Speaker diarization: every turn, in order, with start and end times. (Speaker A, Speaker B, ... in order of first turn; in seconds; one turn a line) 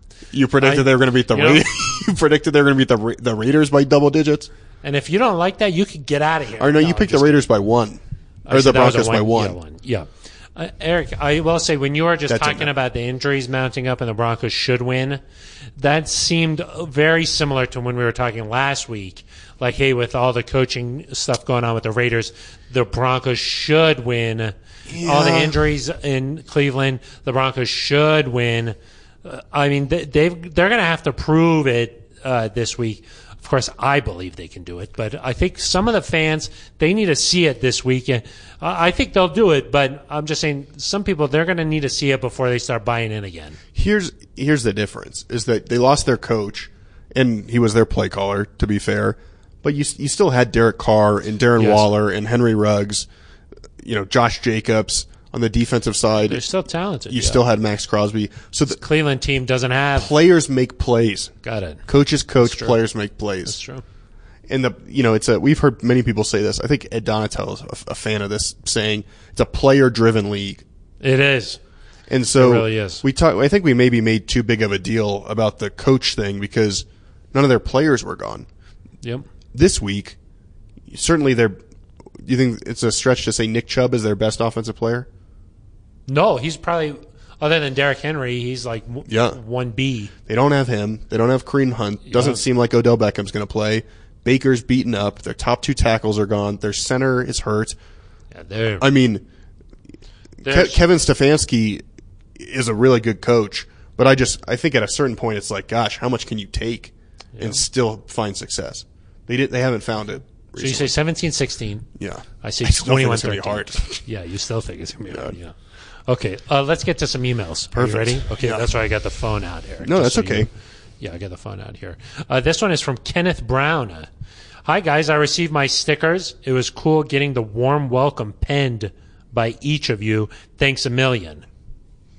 Speaker A: 0.3-4.5
Speaker B: 0.6-1.6
Speaker B: 4.8-7.4
Speaker A: 6.6-9.6
Speaker B: 8.4-15.2
Speaker A: 12.3-12.7
Speaker B: 15.8-43.6
Speaker A: 24.9-25.6
Speaker A: 43.7-53.1
Speaker B: 51.5-51.9
Speaker A: 53.8-56.4
Speaker B: 56.2-57.4
Speaker A: 57.1-58.8
Speaker B: 58.7-60.1
Speaker A: 60.0-61.3
Speaker B: 61.4-61.8
Speaker A: 61.9-63.6
Speaker B: 62.4-62.8
Speaker B: 63.5-63.8
Speaker A: 64.5-70.6
Speaker B: 71.0-71.6
Speaker A: 72.1-78.5
Speaker B: 72.3-73.0
Speaker A: 79.5-80.2
Speaker A: 80.9-81.6
Speaker A: 82.2-85.1
Speaker B: 86.1-90.1
Speaker A: 89.1-89.4
Speaker A: 90.2-97.8
Speaker B: 92.1-92.4
Speaker B: 98.3-98.9
Speaker A: 98.8-99.2
Speaker B: 100.4-100.8
Speaker A: 100.4-101.8
Speaker A: 102.3-110.9
Speaker B: 107.3-107.6
Speaker B: 110.6-111.9
Speaker A: 112.0-114.0
Speaker B: 112.4-115.5
Speaker B: 116.1-124.1
Speaker A: 117.7-118.7
Speaker A: 119.8-120.5
Speaker B: 124.6-131.4